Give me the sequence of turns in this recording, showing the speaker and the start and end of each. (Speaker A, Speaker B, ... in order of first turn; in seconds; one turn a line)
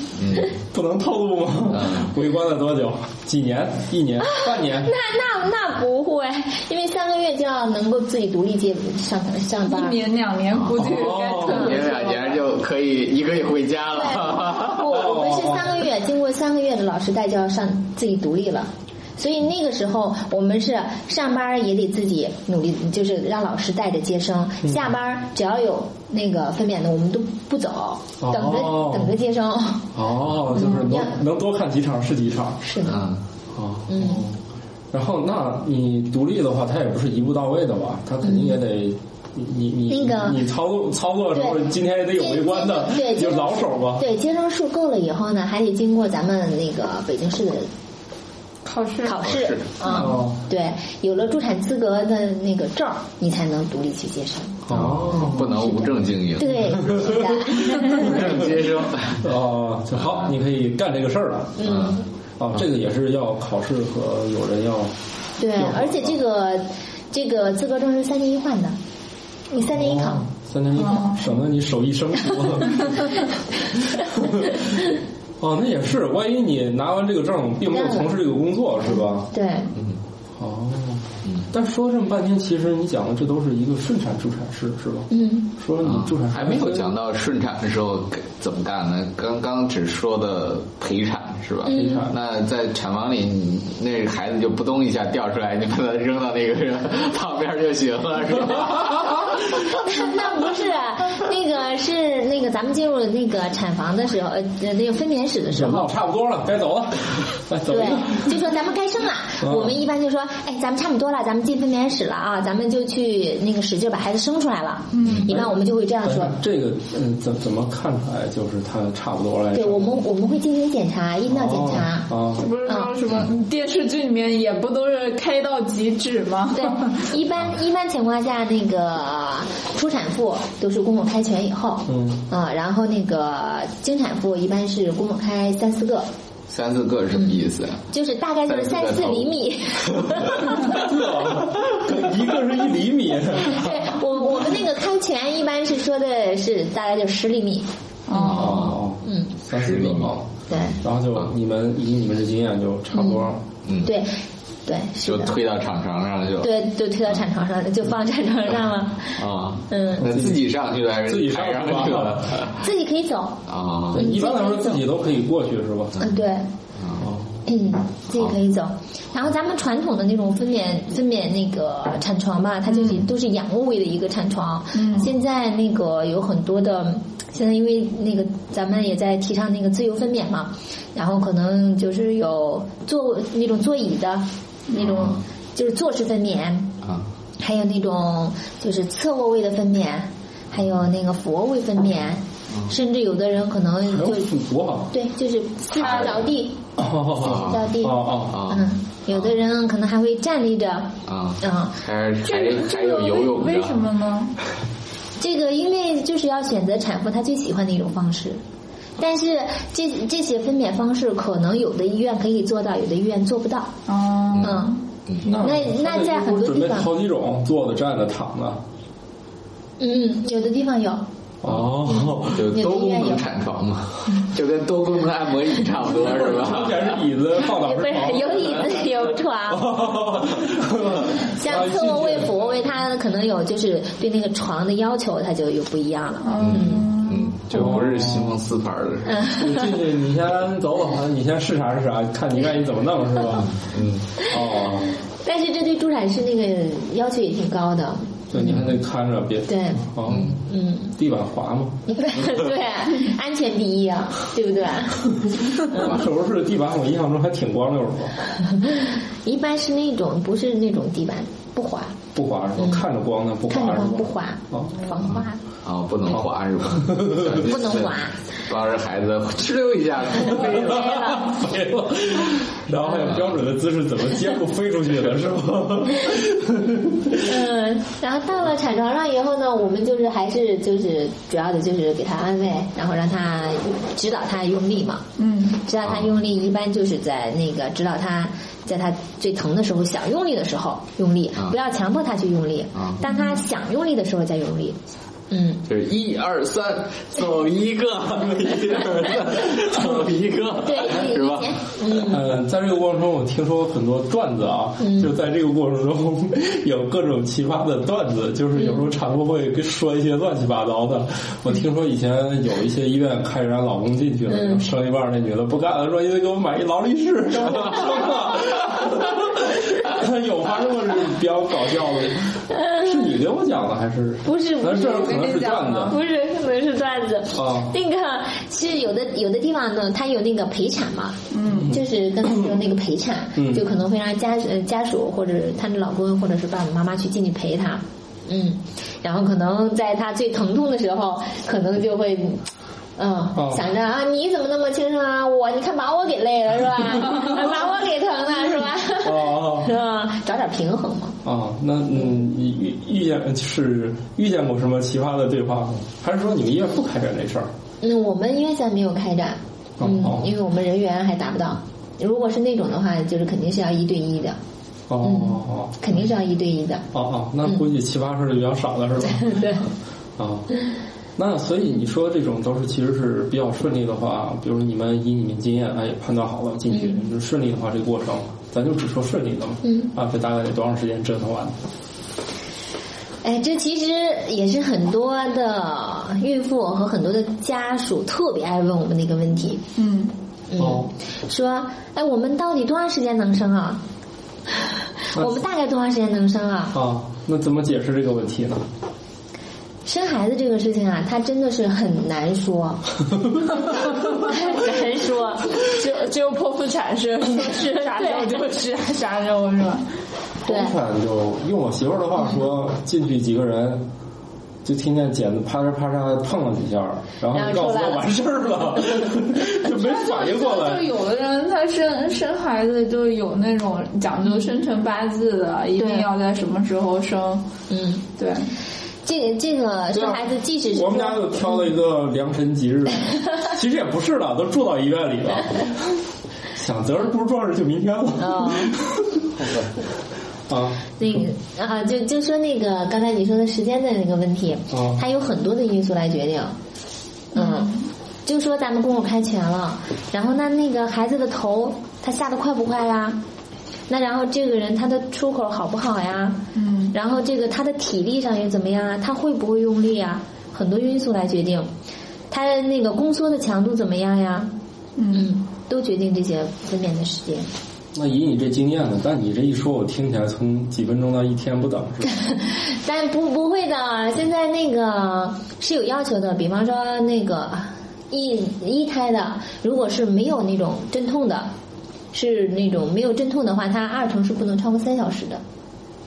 Speaker A: 0.2-0.6
Speaker B: 0.6-4.9
Speaker A: 1.7-2.1
Speaker C: 4.4-10.0
Speaker D: 9.7-12.4
Speaker A: 10.5-10.9
Speaker B: 10.8-11.7
Speaker A: 11.4-15.0
Speaker C: 13.9-29.9
Speaker B: 14.9-15.8
Speaker B: 28.2-29.1
Speaker B: 29.9-32.8
Speaker C: 30.5-31.1
Speaker C: 32.6-33.0
Speaker A: 32.9-33.2
Speaker B: 33.5-34.4
Speaker C: 33.9-34.2
Speaker B: 34.9-44.1
Speaker C: 38.2-38.6
Speaker C: 39.9-40.4
Speaker C: 41.3-47.7
Speaker D: 48.6-49.3
Speaker C: 49.0-58.3
Speaker A: 49.2-50.2
Speaker B: 49.9-50.4
Speaker B: 54.6-55.5
Speaker A: 54.7-59.3
Speaker B: 56.8-61.7
Speaker C: 61.6-62.0
Speaker A: 61.6-62.0
Speaker B: 62.4-64.9
Speaker C: 65.4-68.8
Speaker B: 65.5-66.2
Speaker C: 69.5-70.2
Speaker B: 69.6-79.3
Speaker D: 70.8-71.2
Speaker C: 77.7-78.2
Speaker C: 79.3-79.7
Speaker B: 80.4-86.9
Speaker C: 85.1-85.5
Speaker A: 85.8-99.8
Speaker C: 91.6-92.1
Speaker B: 91.7-92.2
Speaker C: 99.8-105.9
Speaker B: 105.5-108.4
Speaker C: 107.7-116.4
Speaker B: 109.4-109.8
Speaker D: 114.9-115.3
Speaker B: 116.0-120.0
Speaker C: 119.5-122.1
Speaker B: 121.3-122.5
Speaker D: 122.4-127.0
Speaker C: 122.6-122.9
Speaker C: 126.5-136.1
Speaker B: 131.9-132.2
Speaker A: 136.5-137.8
Speaker C: 137.1-137.4
Speaker C: 137.9-140.7
Speaker A: 138.5-139.3
Speaker A: 139.9-140.8
Speaker B: 140.6-144.0
Speaker C: 143.4-148.5
Speaker D: 148.1-148.6
Speaker A: 148.2-148.8
Speaker B: 148.3-153.4
Speaker C: 149.0-149.4
Speaker A: 149.5-150.1
Speaker C: 150.5-150.8
Speaker C: 152.9-153.2
Speaker A: 153.6-153.9
Speaker C: 153.8-155.4
Speaker A: 155.0-156.5
Speaker C: 156.4-160.1
Speaker A: 159.2-162.6
Speaker B: 160.0-162.5
Speaker C: 162.6-164.9
Speaker A: 163.5-164.1
Speaker B: 163.9-166.0
Speaker C: 166.0-166.5
Speaker A: 166.8-167.0
Speaker B: 167.0-167.4
Speaker C: 167.4-186.8
Speaker D: 172.7-172.9
Speaker D: 174.8-175.1
Speaker A: 184.8-185.2
Speaker C: 187.4-194.3
Speaker B: 193.9-194.9
Speaker C: 194.9-201.8
Speaker A: 195.8-196.3
Speaker B: 196.8-198.5
Speaker A: 197.2-197.7
Speaker A: 198.3-199.4
Speaker A: 201.1-203.9
Speaker D: 202.2-204.4
Speaker C: 205.2-208.4
Speaker C: 209.0-213.7
Speaker D: 213.9-214.8
Speaker A: 214.3-215.3
Speaker C: 214.4-216.9
Speaker B: 215.2-218.6
Speaker C: 219.8-221.0
Speaker B: 221.4-222.6
Speaker C: 222.2-223.2
Speaker A: 222.3-227.0
Speaker B: 225.8-228.9
Speaker C: 227.4-229.8
Speaker B: 229.5-232.6
Speaker C: 231.2-236.9
Speaker D: 236.2-237.4
Speaker A: 236.4-239.1
Speaker B: 237.5-238.4
Speaker C: 239.1-239.7
Speaker B: 239.3-243.6
Speaker A: 243.4-244.1
Speaker B: 244.2-244.9
Speaker C: 245.1-248.7
Speaker B: 248.3-251.9
Speaker C: 249.5-249.9
Speaker A: 250.1-250.3
Speaker C: 250.5-250.9
Speaker C: 251.9-255.8
Speaker B: 255.3-258.2
Speaker A: 255.8-256.0
Speaker C: 258.5-262.0
Speaker B: 262.1-265.0
Speaker C: 262.6-262.9
Speaker C: 263.5-265.4
Speaker A: 265.6-271.1
Speaker B: 266.1-267.4
Speaker C: 267.4-268.2
Speaker B: 270.3-277.3
Speaker C: 270.4-271.3
Speaker A: 273.1-273.3
Speaker C: 277.2-285.1
Speaker D: 285.2-285.6
Speaker C: 285.6-295.6
Speaker A: 285.9-286.1
Speaker A: 292.8-293.1
Speaker A: 295.6-301.6
Speaker C: 300.6-302.3
Speaker B: 301.9-326.0
Speaker C: 304.8-305.1
Speaker C: 308.6-308.9
Speaker C: 314.3-314.6
Speaker C: 322.5-322.9
Speaker C: 324.2-331.2
Speaker D: 324.7-326.0
Speaker B: 327.4-327.7
Speaker D: 331.3-331.8
Speaker B: 331.4-332.5
Speaker C: 331.7-342.4
Speaker B: 333.4-333.6
Speaker C: 343.0-351.2
Speaker B: 343.4-343.6
Speaker B: 349.0-349.7
Speaker B: 351.2-357.5
Speaker C: 357.8-364.4
Speaker B: 359.8-360.3
Speaker B: 364.9-365.9
Speaker C: 365.0-366.9
Speaker B: 366.9-369.6
Speaker C: 369.1-369.7
Speaker B: 370.2-370.5
Speaker B: 371.2-381.6
Speaker C: 376.7-377.0
Speaker C: 379.6-379.9
Speaker C: 383.2-389.6
Speaker D: 389.8-390.1
Speaker C: 390.5-393.8
Speaker B: 390.6-390.9
Speaker C: 394.6-396.7
Speaker B: 395.1-395.4
Speaker B: 396.7-398.6
Speaker C: 399.9-402.9
Speaker C: 403.6-405.5
Speaker D: 405.6-409.9
Speaker C: 407.9-408.4
Speaker C: 410.4-410.7
Speaker B: 410.4-413.9
Speaker B: 414.6-420.9
Speaker C: 417.3-418.1
Speaker D: 419.7-427.4
Speaker C: 425.8-426.1
Speaker C: 427.7-428.0
Speaker D: 428.2-428.5
Speaker C: 429.1-431.6
Speaker B: 429.9-435.9
Speaker B: 436.6-439.3
Speaker C: 438.2-438.7
Speaker A: 439.4-439.7
Speaker B: 440.5-441.2
Speaker C: 441.0-446.6
Speaker B: 444.7-445.0
Speaker C: 447.3-447.7
Speaker D: 447.4-447.9
Speaker C: 448.2-453.2
Speaker C: 453.9-456.4
Speaker D: 456.6-456.9
Speaker C: 456.9-461.7
Speaker C: 462.3-464.5
Speaker D: 465.0-465.3
Speaker C: 465.1-467.5
Speaker B: 467.9-472.1
Speaker C: 472.1-481.5
Speaker C: 482.1-485.4